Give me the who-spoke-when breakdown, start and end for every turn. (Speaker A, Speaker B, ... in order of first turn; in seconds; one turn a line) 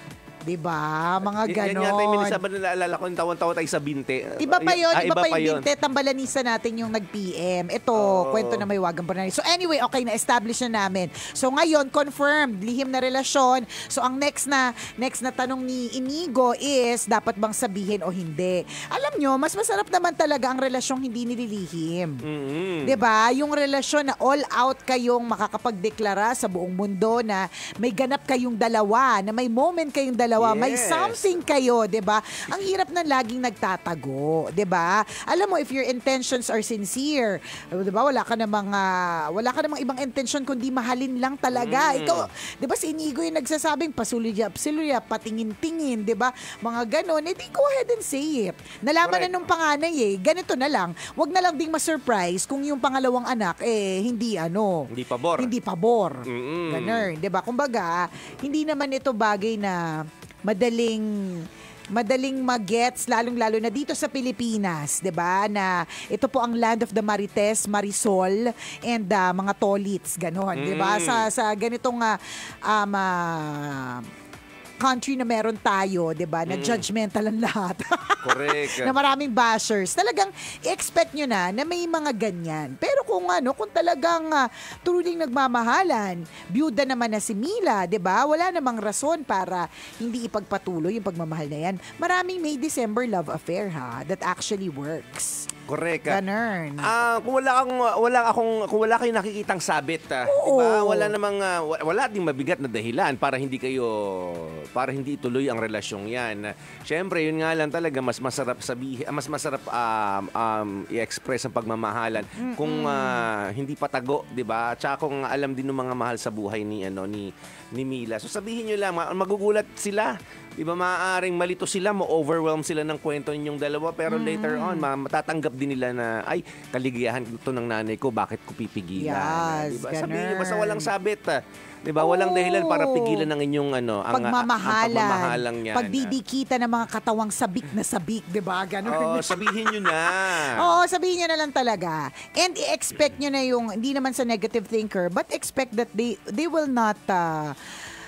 Speaker A: 0.5-2.4
Speaker B: 1.2-5.7
Speaker A: 4.4-22.2
Speaker B: 7.9-8.7
Speaker B: 22.2-23.0
Speaker A: 22.8-74.0
Speaker B: 30.4-31.4
Speaker B: 41.5-42.3
Speaker B: 49.0-49.5
Speaker B: 54.9-55.5
Speaker B: 56.2-57.1
Speaker B: 70.5-71.3
Speaker A: 74.8-95.5
Speaker B: 76.5-76.8
Speaker B: 78.2-78.9
Speaker B: 95.7-96.2
Speaker A: 96.0-96.9
Speaker B: 96.8-136.1
Speaker A: 100.2-101.1
Speaker A: 112.4-113.3
Speaker A: 124.1-124.9
Speaker A: 128.9-130.9
Speaker A: 132.0-133.3
Speaker A: 134.1-147.5
Speaker B: 138.8-140.8